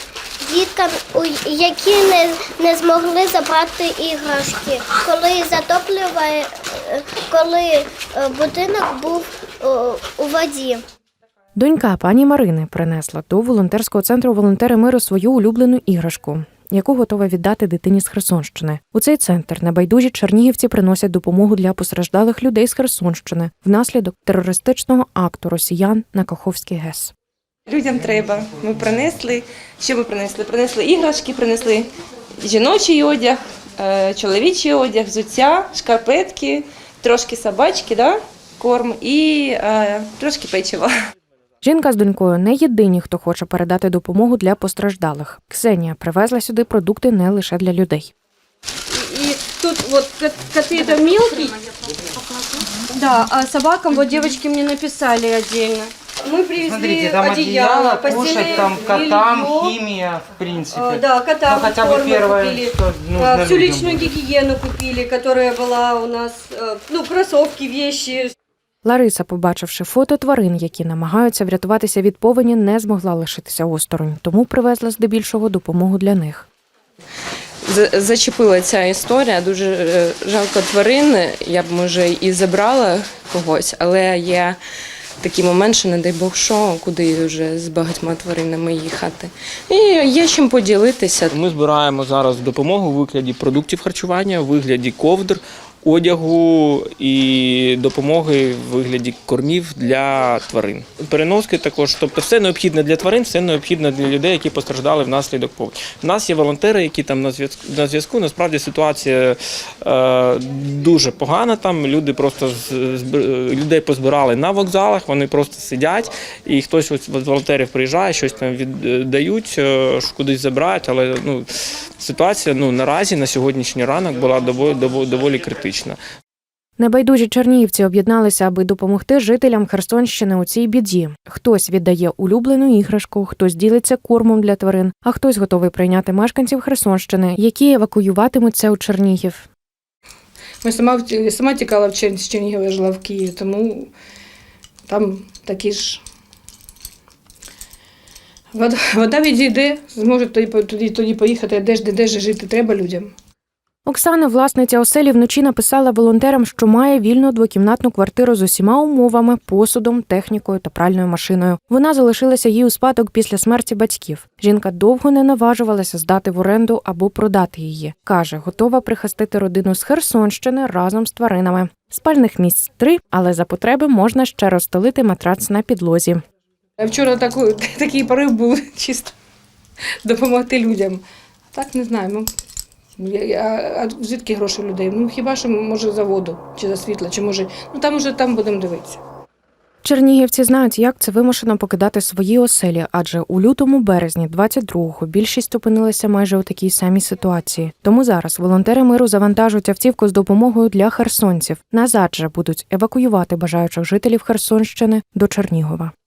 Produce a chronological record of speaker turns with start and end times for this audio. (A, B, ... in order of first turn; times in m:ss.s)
0:00.4-0:10.8 A
0:11.6-0:27.1 B
0:27.7-0:31.9 C
0:32.4-0:40.9 C
0:41.6-0:48.1 B
0:48.9-0:51.6 D
0:52.2-0:59.8 D
0:56.5-1:04.1 E
1:00.7-1:08.3 D
1:08.8-1:16.5 B
1:17.6-1:24.6 C
1:25.2-1:31.3 C
1:31.3-2:01.4 F
2:02.0-2:06.0 F
2:06.8-2:19.5 B
2:20.6-2:23.9 G
2:24.9-2:26.0 G
2:28.5-2:33.1 G
2:33.8-2:56.2 B
2:56.8-2:59.2 G
3:00.0-3:02.3 G
3:03.0-3:09.0 G
3:09.8-3:25.9 B